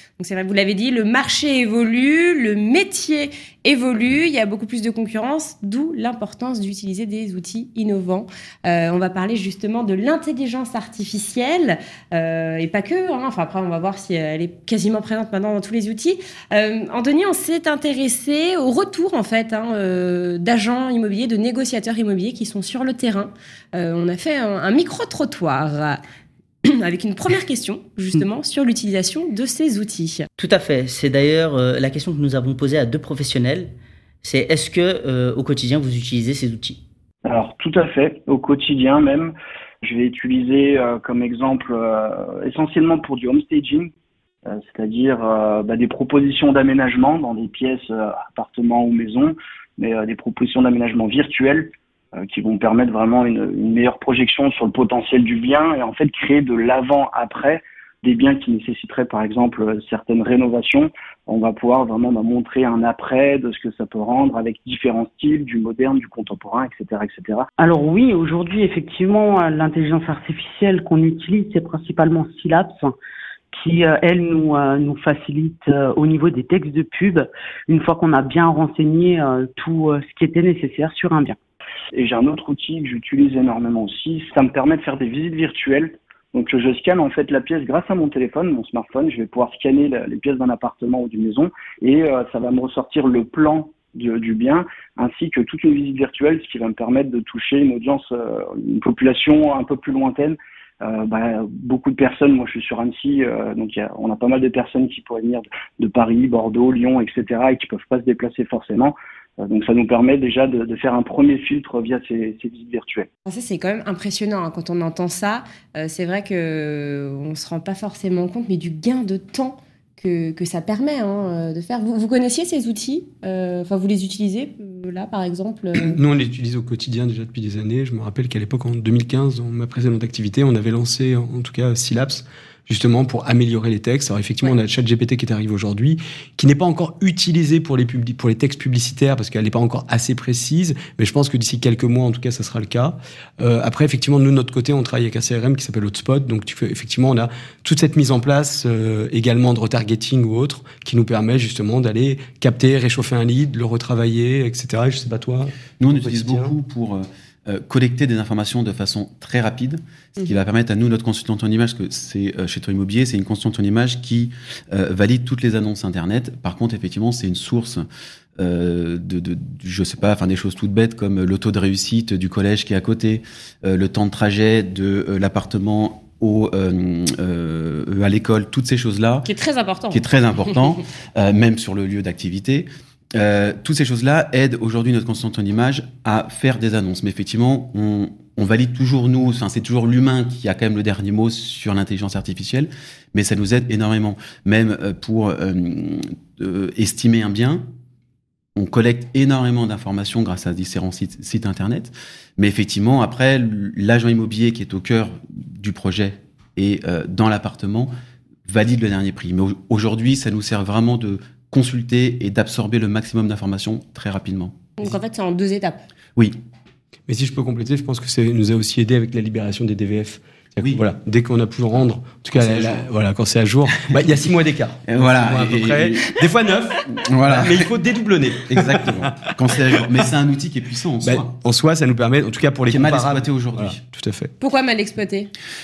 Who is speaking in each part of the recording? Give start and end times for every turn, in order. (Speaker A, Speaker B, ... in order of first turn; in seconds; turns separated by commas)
Speaker A: 0.2-26.0, Speaker A: 26.6-30.3, Speaker B: 30.4-33.7, Speaker B: 34.2-36.8, Speaker C: 37.2-43.9, Speaker C: 44.5-67.5, Speaker D: 67.6-72.9, Speaker D: 73.5-81.4, Speaker C: 81.9-113.1, Speaker A: 113.3-126.0, Speaker E: 125.8-156.6, Speaker F: 155.8-167.8, Speaker F: 168.4-179.3, Speaker A: 179.3-180.6, Speaker F: 179.9-197.7, Speaker F: 198.6-207.9, Speaker F: 208.5-214.9, Speaker A: 214.8-215.8, Speaker E: 217.1-230.0, Speaker F: 220.6-220.8, Speaker F: 222.3-222.9, Speaker F: 223.8-224.1, Speaker F: 224.9-226.2, Speaker F: 226.9-227.7, Speaker F: 228.5-231.3, Speaker E: 231.0-234.3, Speaker F: 232.7-233.8, Speaker A: 234.4-235.3